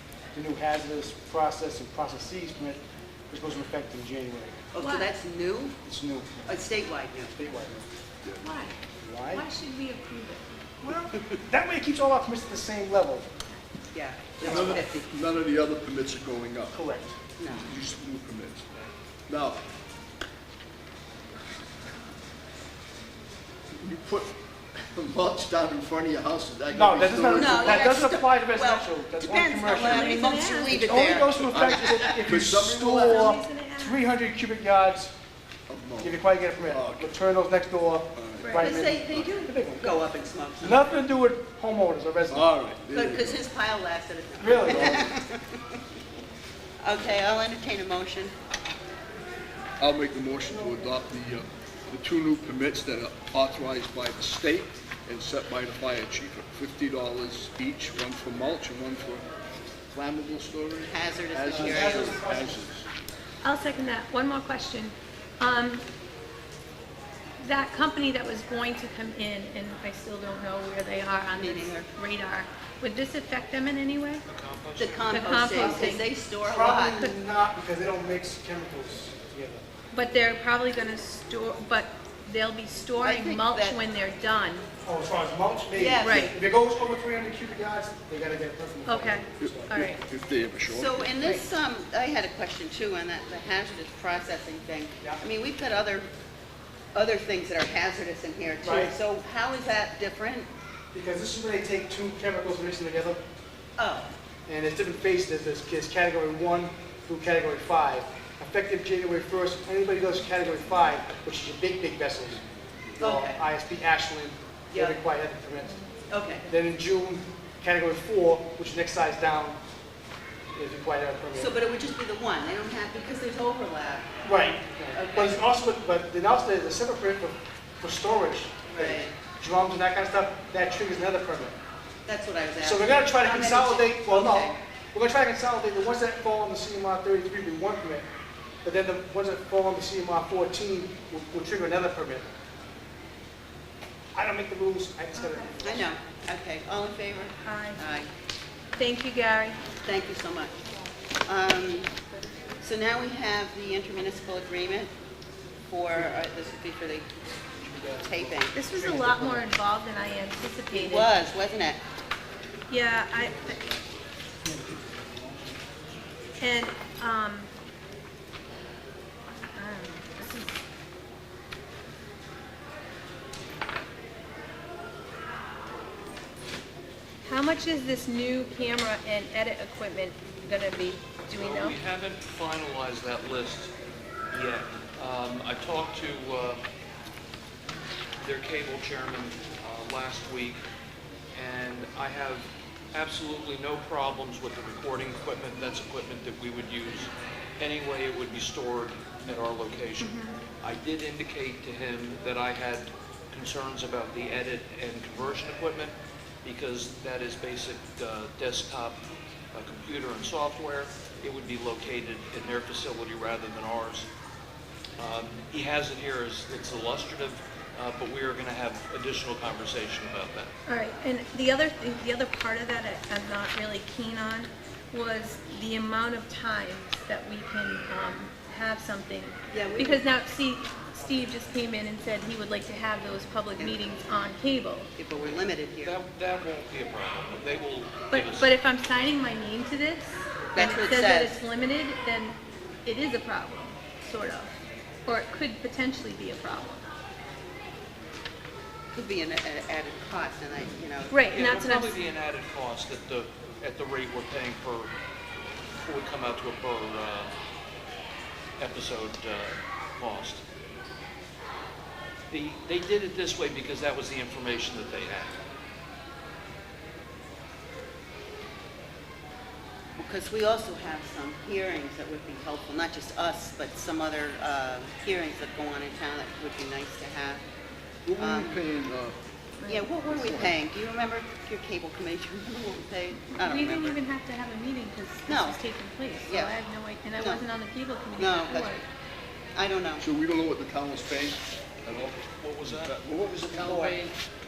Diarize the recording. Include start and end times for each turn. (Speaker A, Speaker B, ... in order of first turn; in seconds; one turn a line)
Speaker A: 0.3-4.6
Speaker B: 4.7-5.8
Speaker C: 4.8-5.1
Speaker A: 5.8-6.6
Speaker B: 6.5-7.3
Speaker A: 7.3-7.9
Speaker C: 8.4-8.8
Speaker A: 9.0-9.4
Speaker C: 9.3-10.5
Speaker A: 10.8-13.3
Speaker B: 13.9-15.1
Speaker A: 14.4-14.8
Speaker D: 14.4-16.8
Speaker A: 16.7-17.1
Speaker B: 17.4-17.7
Speaker D: 17.5-18.7
Speaker D: 19.3-19.6
Speaker D: 23.7-28.1
Speaker A: 26.7-35.1
Speaker B: 27.3-31.3
Speaker C: 29.8-30.9
Speaker D: 31.1-33.3
Speaker C: 33.1-34.0
Speaker D: 35.7-37.1
Speaker A: 36.0-40.0
Speaker D: 38.1-39.2
Speaker B: 38.6-40.9
Speaker A: 40.6-42.5
Speaker D: 42.3-43.4
Speaker B: 42.9-45.6
Speaker A: 44.4-45.0
Speaker D: 44.6-45.2
Speaker B: 46.8-48.3
Speaker D: 49.8-59.3
Speaker A: 50.5-50.8
Speaker D: 59.9-62.9
Speaker B: 60.9-62.2
Speaker A: 61.5-62.6
Speaker C: 63.4-65.8
Speaker C: 67.4-74.2
Speaker B: 71.3-71.9
Speaker E: 74.2-75.5
Speaker B: 74.8-77.1
Speaker C: 75.1-76.0
Speaker A: 75.6-79.6
Speaker C: 79.9-84.7
Speaker B: 83.0-83.8
Speaker A: 84.8-89.8
Speaker B: 85.7-86.3
Speaker C: 86.0-86.3
Speaker C: 88.9-90.0
Speaker D: 89.4-91.1
Speaker B: 90.7-96.1
Speaker B: 96.9-100.5
Speaker A: 98.6-98.9
Speaker A: 100.9-103.2
Speaker B: 103.8-104.1
Speaker A: 104.5-112.4
Speaker A: 113.0-115.8
Speaker B: 113.0-113.4
Speaker B: 114.7-115.0
Speaker B: 116.1-116.5
Speaker A: 116.5-119.6
Speaker A: 120.5-121.5
Speaker B: 121.3-125.4
Speaker A: 124.2-131.6
Speaker B: 128.7-129.1
Speaker B: 132.1-134.6
Speaker A: 132.6-138.1
Speaker A: 138.6-142.3
Speaker A: 144.1-145.9
Speaker C: 145.1-145.5
Speaker B: 145.6-148.1
Speaker C: 147.4-147.8
Speaker C: 148.7-149.6
Speaker B: 149.8-150.6
Speaker B: 151.2-151.9
Speaker B: 152.6-154.9
Speaker B: 155.7-157.1
Speaker A: 155.9-156.2
Speaker A: 157.6-159.5
Speaker B: 158.0-158.6
Speaker C: 158.6-161.1
Speaker B: 160.7-161.8
Speaker C: 162.7-163.6
Speaker A: 163.1-163.9
Speaker A: 164.4-165.7
Speaker C: 166.4-167.5
Speaker C: 169.5-170.6
Speaker C: 177.2-181.8
Speaker E: 181.3-183.7
Speaker E: 184.3-186.6
Speaker E: 188.2-190.6
Speaker E: 191.3-209.0
Speaker C: 200.0-200.4
Speaker E: 209.5-214.1
Speaker E: 215.0-220.5
Speaker C: 220.7-234.9
Speaker B: 229.5-230.0
Speaker B: 233.6-234.0
Speaker B: 235.0-235.9
Speaker E: 235.2-238.5
Speaker C: 238.1-246.9
Speaker B: 240.5-241.4
Speaker B: 248.9-251.2
Speaker C: 251.1-251.9
Speaker E: 251.3-254.9
Speaker E: 255.7-257.3
Speaker E: 258.6-260.4
Speaker E: 262.3-265.4
Speaker B: 270.0-277.4
Speaker D: 278.1-279.1
Speaker B: 278.2-278.6
Speaker C: 279.6-279.9
Speaker B: 279.7-284.0
Speaker D: 280.0-280.6
Speaker C: 283.1-288.8
Speaker B: 285.3-285.6
Speaker B: 286.2-286.5
Speaker B: 287.1-287.5
Speaker B: 288.2-288.8
Speaker B: 289.5-290.0
Speaker D: 290.0-294.1
Speaker E: 292.4-292.9
Speaker E: 293.6-294.1